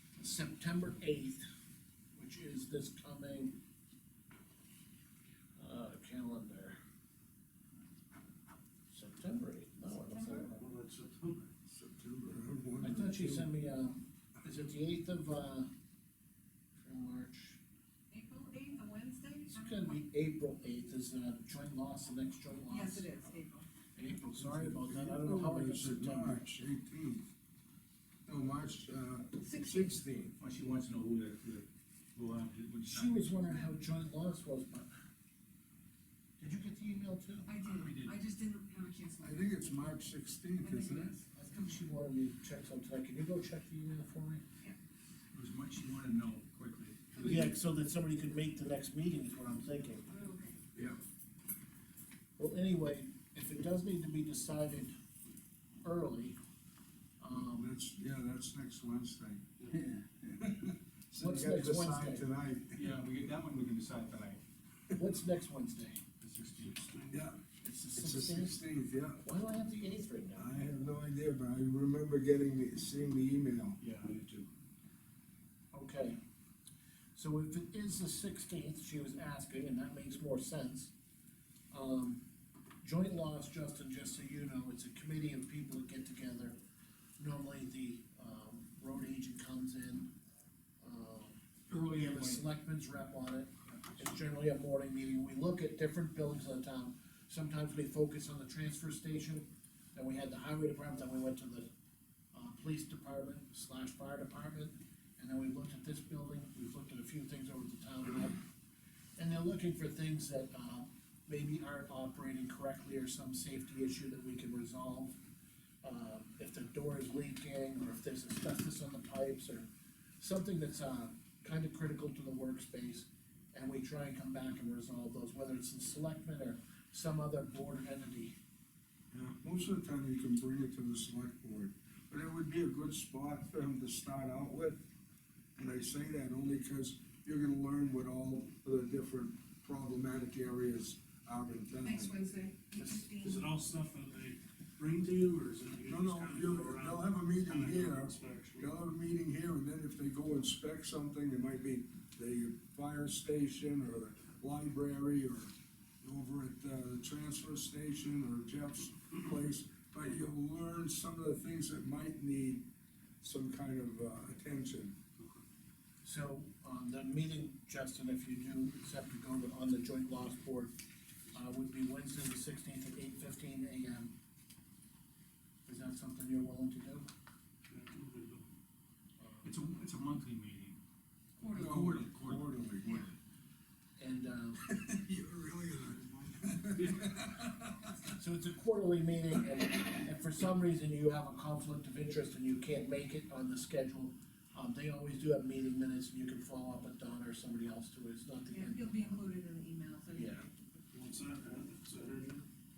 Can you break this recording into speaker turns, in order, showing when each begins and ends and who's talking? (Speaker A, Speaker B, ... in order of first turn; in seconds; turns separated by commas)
Speaker A: 0.2-1.5, Speaker A: 2.1-3.6, Speaker A: 5.6-6.8, Speaker A: 8.9-10.6, Speaker B: 9.9-10.5, Speaker C: 10.5-11.5, Speaker D: 11.7-13.5, Speaker A: 12.8-15.7, Speaker A: 16.8-17.6, Speaker B: 18.1-20.0, Speaker A: 19.5-23.1, Speaker B: 22.7-23.7, Speaker A: 23.9-26.6, Speaker D: 24.4-27.3, Speaker D: 28.3-30.4, Speaker B: 29.4-30.0, Speaker E: 30.4-33.6, Speaker A: 32.9-34.9, Speaker A: 36.4-37.5, Speaker B: 37.5-41.3, Speaker E: 37.6-38.1, Speaker D: 39.2-41.1, Speaker A: 41.3-44.4, Speaker E: 45.3-47.5, Speaker B: 47.2-47.5, Speaker A: 47.2-50.1, Speaker B: 50.1-50.6, Speaker A: 52.4-54.9, Speaker A: 55.8-56.4, Speaker A: 57.2-57.7, Speaker D: 57.3-62.9, Speaker A: 61.2-62.2, Speaker E: 62.8-64.4, Speaker A: 64.9-66.0, Speaker E: 66.2-67.0, Speaker C: 66.9-67.2, Speaker D: 67.1-67.4, Speaker A: 67.6-68.6, Speaker D: 68.0-69.2, Speaker A: 69.2-70.5, Speaker D: 70.4-73.8, Speaker E: 73.8-74.5, Speaker A: 75.7-76.2, Speaker A: 77.2-80.9, Speaker A: 81.7-82.2, Speaker A: 82.8-86.6, Speaker A: 87.2-90.1, Speaker A: 90.8-101.7, Speaker E: 91.7-92.5, Speaker A: 102.3-108.4, Speaker A: 109.2-115.2, Speaker A: 115.8-119.7, Speaker A: 120.2-128.4, Speaker D: 129.4-134.8, Speaker D: 135.6-142.1, Speaker B: 141.8-143.5, Speaker C: 143.2-148.8, Speaker D: 145.9-162.7, Speaker D: 163.2-165.0, Speaker A: 166.0-170.7, Speaker A: 171.3-174.1, Speaker A: 175.7-177.1, Speaker C: 177.7-178.5, Speaker A: 179.2-179.5, Speaker E: 179.4-180.8, Speaker B: 181.4-181.8, Speaker D: 181.6-183.2, Speaker E: 181.6-182.5, Speaker A: 184.0-184.7, Speaker D: 184.7-187.9, Speaker A: 188.2-199.3, Speaker B: 198.5-200.8, Speaker A: 200.1-200.5, Speaker C: 200.9-202.5